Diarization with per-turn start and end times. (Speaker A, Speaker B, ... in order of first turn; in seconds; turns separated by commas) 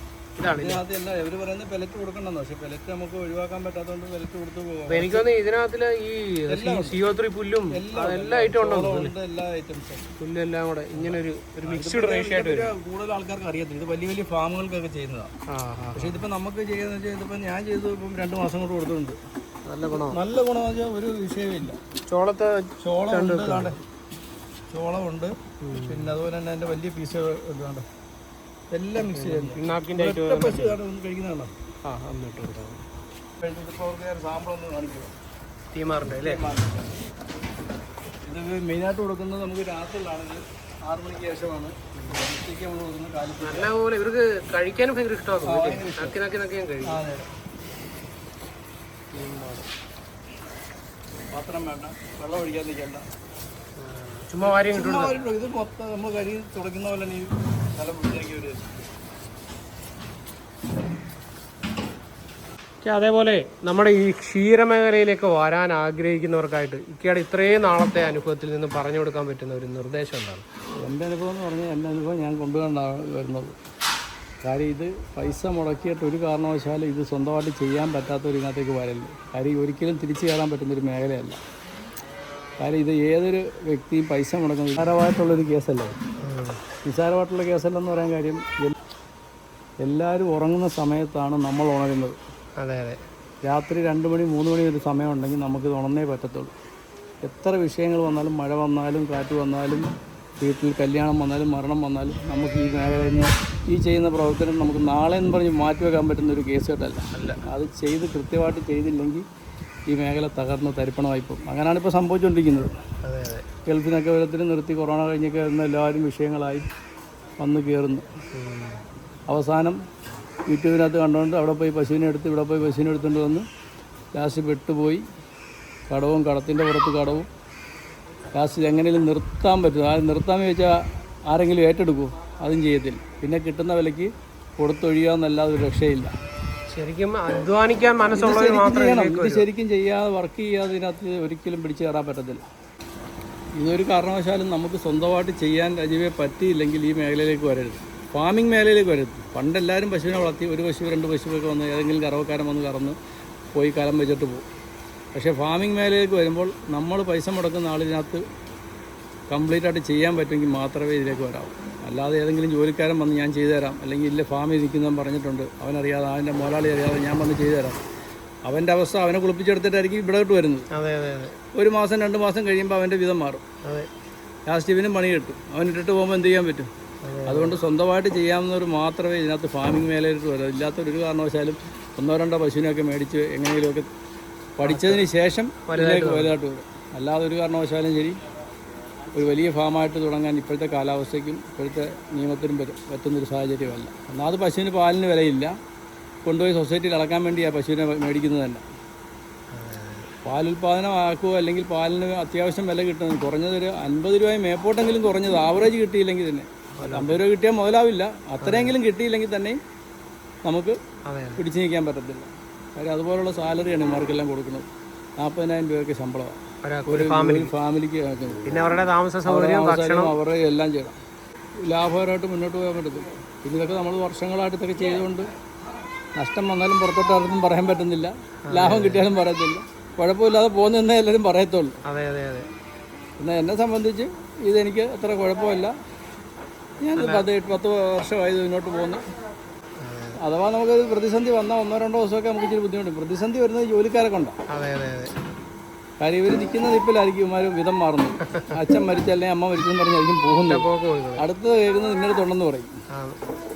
Speaker A: 0.4-0.8, Speaker B: 0.5-5.3, Speaker A: 4.9-9.1, Speaker B: 6.5-7.0, Speaker B: 7.7-10.1, Speaker A: 10.2-12.7, Speaker B: 10.9-15.3, Speaker A: 15.5-16.2, Speaker B: 15.9-19.2, Speaker A: 19.6-20.2, Speaker B: 20.1-21.8, Speaker A: 22.1-23.8, Speaker B: 22.8-23.8, Speaker B: 24.7-27.9, Speaker A: 25.6-26.2, Speaker B: 28.7-31.5, Speaker A: 29.0-30.8, Speaker A: 31.8-32.8, Speaker B: 33.4-35.1, Speaker A: 35.7-36.4, Speaker B: 36.1-36.9, Speaker B: 38.3-43.7, Speaker A: 42.0-42.2, Speaker A: 43.4-47.0, Speaker B: 45.5-46.1, Speaker B: 46.8-47.3, Speaker A: 49.1-49.7, Speaker B: 51.3-53.1, Speaker A: 53.8-55.3, Speaker B: 54.5-58.8, Speaker A: 62.8-70.4, Speaker B: 70.8-73.6, Speaker B: 74.4-81.4, Speaker B: 82.6-85.9, Speaker A: 86.2-86.6, Speaker B: 86.8-88.8, Speaker B: 89.8-92.2, Speaker A: 92.6-93.0, Speaker B: 93.4-96.5, Speaker B: 97.2-99.9, Speaker B: 100.4-109.2, Speaker A: 107.1-107.4, Speaker B: 109.9-112.7, Speaker A: 113.0-113.5, Speaker B: 113.7-116.7, Speaker B: 117.4-118.1, Speaker A: 118.3-118.8, Speaker B: 119.3-119.8, Speaker B: 120.5-123.4, Speaker B: 124.1-125.0, Speaker B: 125.9-127.3, Speaker B: 128.3-136.1, Speaker A: 136.7-139.5, Speaker B: 138.1-142.4, Speaker B: 143.6-152.9, Speaker B: 153.6-154.5, Speaker B: 155.1-158.2, Speaker B: 159.3-167.8, Speaker B: 168.5-170.7, Speaker A: 170.7-171.4, Speaker B: 171.5-173.4, Speaker A: 173.6-173.9, Speaker B: 174.5-176.7, Speaker A: 177.0-177.6, Speaker B: 177.2-183.9, Speaker B: 184.6-188.2, Speaker A: 184.7-185.0, Speaker A: 185.7-186.3, Speaker B: 189.1-195.6, Speaker B: 196.2-198.6, Speaker A: 199.5-200.1, Speaker B: 200.2-209.6, Speaker A: 206.8-207.2, Speaker A: 208.4-208.8, Speaker B: 210.4-210.8, Speaker A: 211.1-211.4, Speaker B: 211.4-214.7, Speaker B: 215.2-218.5, Speaker A: 216.6-217.5, Speaker A: 218.4-220.2, Speaker B: 219.2-221.0, Speaker B: 221.6-225.3, Speaker B: 226.2-231.8, Speaker A: 228.5-229.1, Speaker A: 231.8-232.5, Speaker B: 233.2-235.7, Speaker B: 236.8-239.0, Speaker A: 236.9-237.3, Speaker A: 239.8-240.2, Speaker B: 240.2-244.3, Speaker A: 244.5-245.1, Speaker B: 246.0-250.6, Speaker A: 250.4-251.2, Speaker B: 251.2-252.8, Speaker A: 252.9-253.2